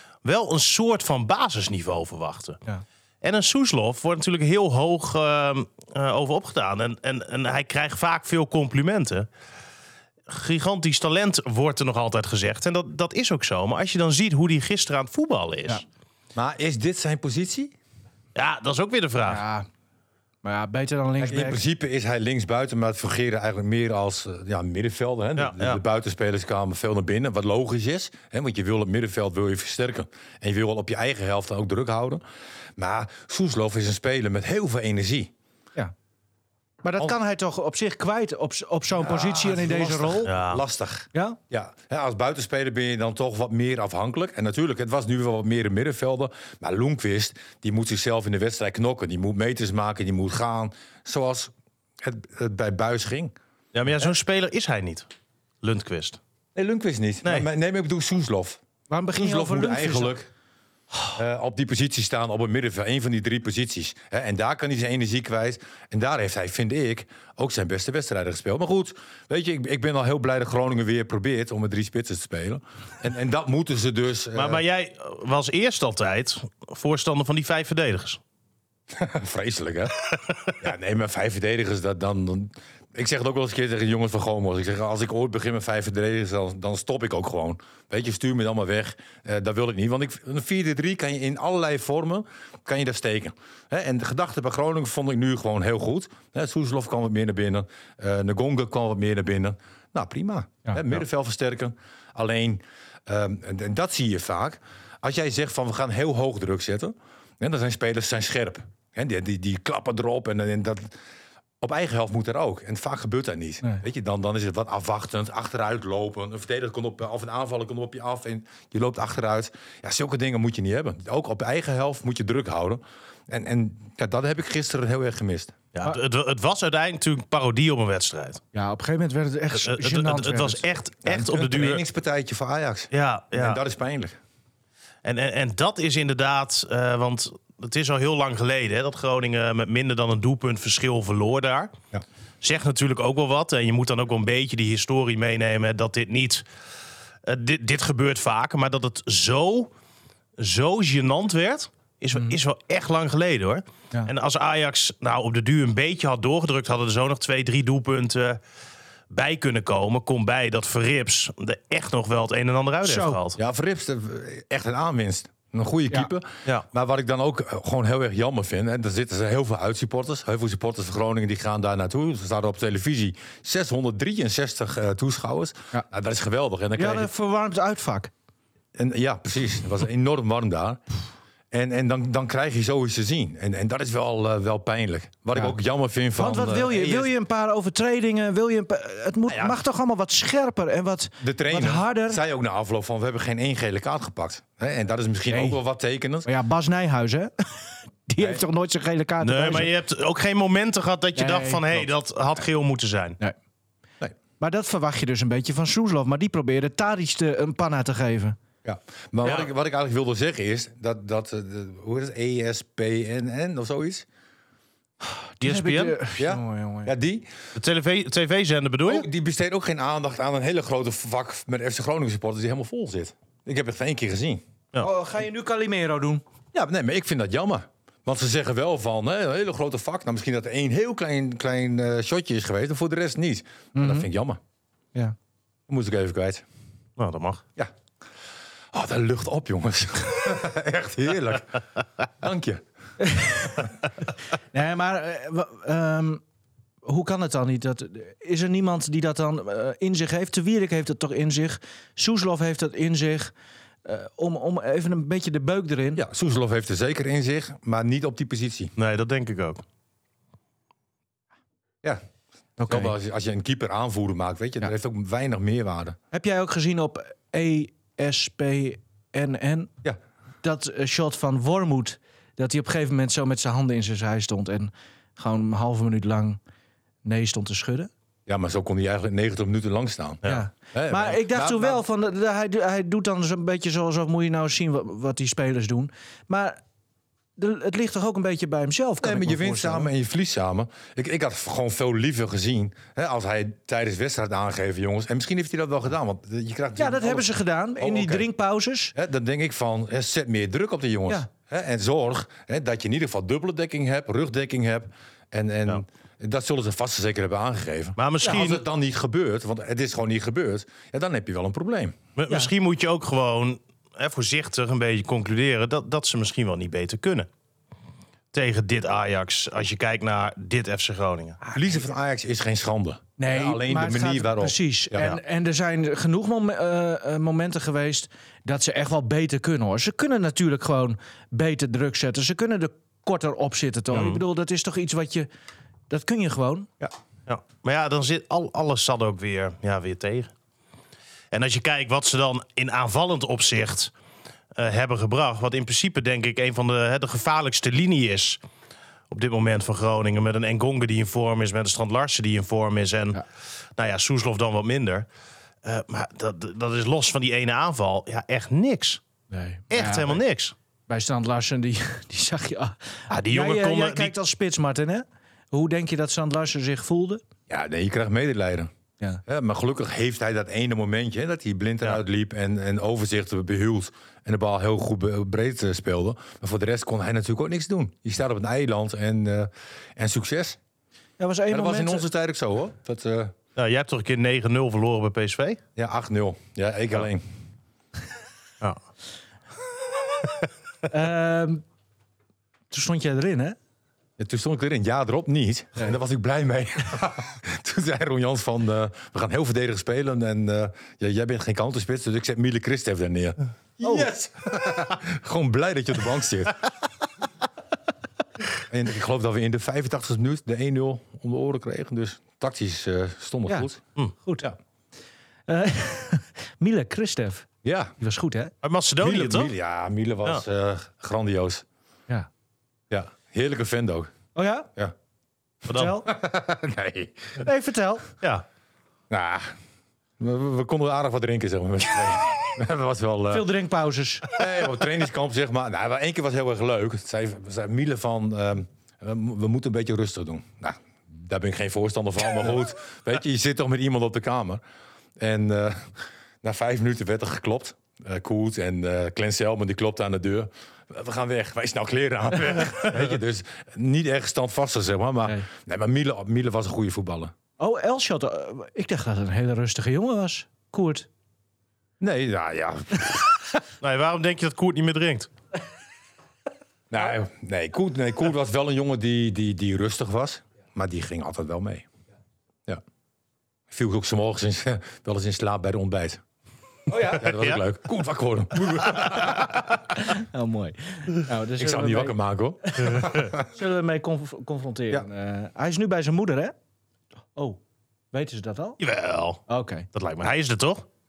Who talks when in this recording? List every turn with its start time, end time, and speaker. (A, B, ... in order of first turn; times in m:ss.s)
0:00.2-0:02.6 A
0:03.2-0:09.3 A
0:10.3-0:15.8 A
0:16.3-0:17.8 B
0:18.3-0:19.4 A
0:19.2-0:19.7 C
0:20.4-0:21.6 C
0:21.2-0:32.2 B
0:25.4-0:25.8 A
0:32.8-0:35.3 B
0:36.8-0:40.3 C
0:38.9-0:53.3 B
0:40.2-0:40.6 A
0:53.7-0:55.1 A
0:55.6-0:56.2 A
0:56.5-0:58.6 B
0:58.9-1:00.2 C
0:59.2-1:00.3 B
1:01.1-1:14.6 B
1:14.3-1:18.2 A
1:18.9-1:19.9 B
1:20.6-1:50.9 B
1:51.6-2:05.6 B
2:05.7-2:08.4 A
2:08.5-2:10.6 C
2:09.6-2:11.8 A
2:11.0-2:14.2 B
2:12.9-2:13.6 A
2:15.0-2:21.7 A
2:22.4-2:26.4 A
2:27.2-2:29.7 A
2:30.4-2:38.4 A
2:39.1-2:43.4 A
2:42.8-2:43.2 C
2:43.4-2:57.1 B
2:56.8-2:58.1 C
2:58.8-3:00.8 B
3:01.5-3:07.1 B
3:06.2-3:12.2 C
3:09.3-3:09.6 B
3:11.2-3:16.3 B
3:15.3-3:15.6 C
3:16.2-3:19.7 C
3:19.2-3:23.2 A
3:21.1-3:21.8 C
3:24.4-3:28.4 C
3:28.6-3:34.0 B
3:29.2-3:29.5 A
3:35.1-3:36.9 C
3:35.4-3:36.0 A
3:36.2-3:37.3 B
3:37.6-3:39.1 A
3:38.8-3:44.4 B
3:44.8-3:46.2 C
3:46.5-3:54.4 B
3:53.7-3:54.1 C
3:55.7-3:56.4 B
3:57.0-3:57.4 A
3:58.7-4:01.6 B
4:02.2-4:02.6 B
4:03.0-4:03.7 C
4:04.5-4:06.2 C
4:06.8-4:13.3 C
4:13.8-4:16.0 C
4:15.9-4:18.7 B
4:18.8-4:19.6 A
4:22.6-4:22.9 C
4:22.7-4:26.0 B
4:26.1-4:29.7 C
4:30.4-4:36.4 C
4:37.0-4:37.9 C
4:38.3-4:41.8 B
4:40.2-4:46.6 C
4:47.4-4:49.9 C
4:49.0-4:58.3 B
4:56.8-4:58.9 C
4:58.9-5:12.0 B
5:08.0-5:08.6 A
5:12.2-5:17.3 A
5:18.3-5:21.4 A
5:21.4-5:25.1 B
5:23.2-5:35.3 C
5:33.9-5:34.2 A
5:35.9-5:36.7 C
5:37.3-5:40.3 A
5:41.3-5:43.9 A
5:44.5-5:48.4 A
5:49.1-5:53.2 A
5:53.8-5:55.0 A
5:55.6-5:59.0 A
5:59.3-6:00.2 C
5:59.7-6:00.5 A
6:00.9-6:07.2 C
6:03.1-6:04.1 A
6:07.5-6:08.7 B
6:09.2-6:20.6 B
6:21.2-6:22.0 C
6:21.5-6:23.3 B
6:23.6-6:25.6 A
6:25.8-6:27.2 B
6:30.9-6:31.6 C
6:32.7-6:33.6 C
6:34.2-6:46.5 B
6:48.7-6:53.8 B
6:54.2-6:54.5 C
6:55.5-6:57.5 C
6:57.6-6:57.9 B
6:58.0-6:58.5 C
6:58.6-6:59.5 A
6:59.0-7:01.6 B
7:02.9-7:04.1 B
7:04.3-7:04.7 C
7:05.6-7:06.0 A
7:05.7-7:06.1 C
7:06.0-7:07.4 B
7:07.4-7:08.1 C
7:09.1-7:09.5 B
7:10.2-7:13.5 B
7:13.3-7:14.3 C
7:14.3-7:24.6 B
7:25.2-7:37.3 B
7:37.6-7:41.1 C
7:42.0-7:43.3 B
7:43.8-7:45.3 A
7:46.9-7:51.8 B
7:53.7-7:56.2 B
7:56.9-7:57.3 C
7:57.1-7:59.4 B
7:57.2-7:57.6 A
7:59.9-8:06.5 C
8:01.6-8:03.4 B
8:07.3-8:07.6 C
8:08.1-8:08.8 C
8:08.8-8:09.4 A
8:09.5-8:09.9 C
8:09.9-8:10.8 A